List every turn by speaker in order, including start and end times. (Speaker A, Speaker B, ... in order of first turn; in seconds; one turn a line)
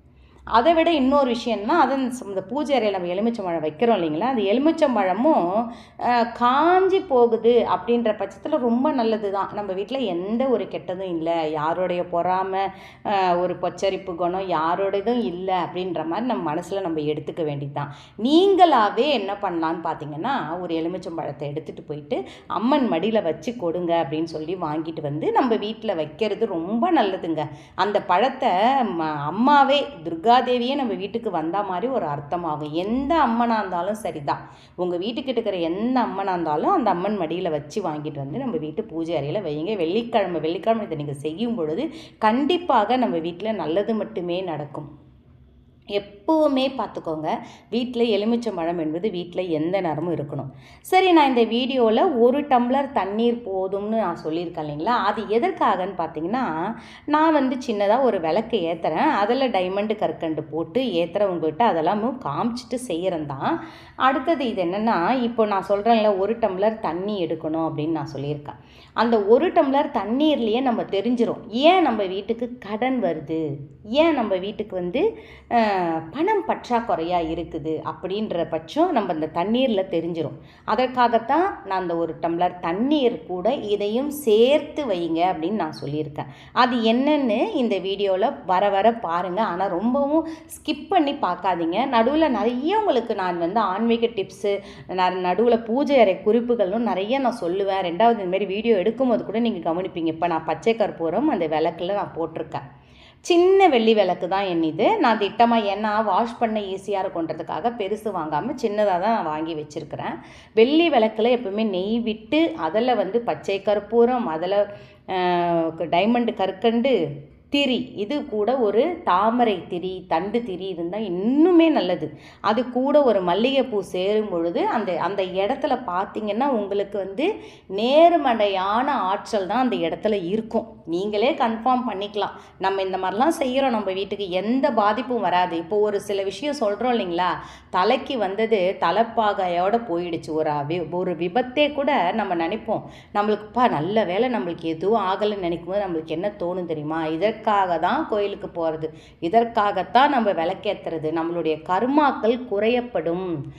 Speaker A: 0.6-44.9
Speaker A: 46.0-56.5
Speaker A: 57.1-73.4
Speaker A: 74.0-102.6
Speaker A: 103.3-117.0
Speaker A: 117.5-153.3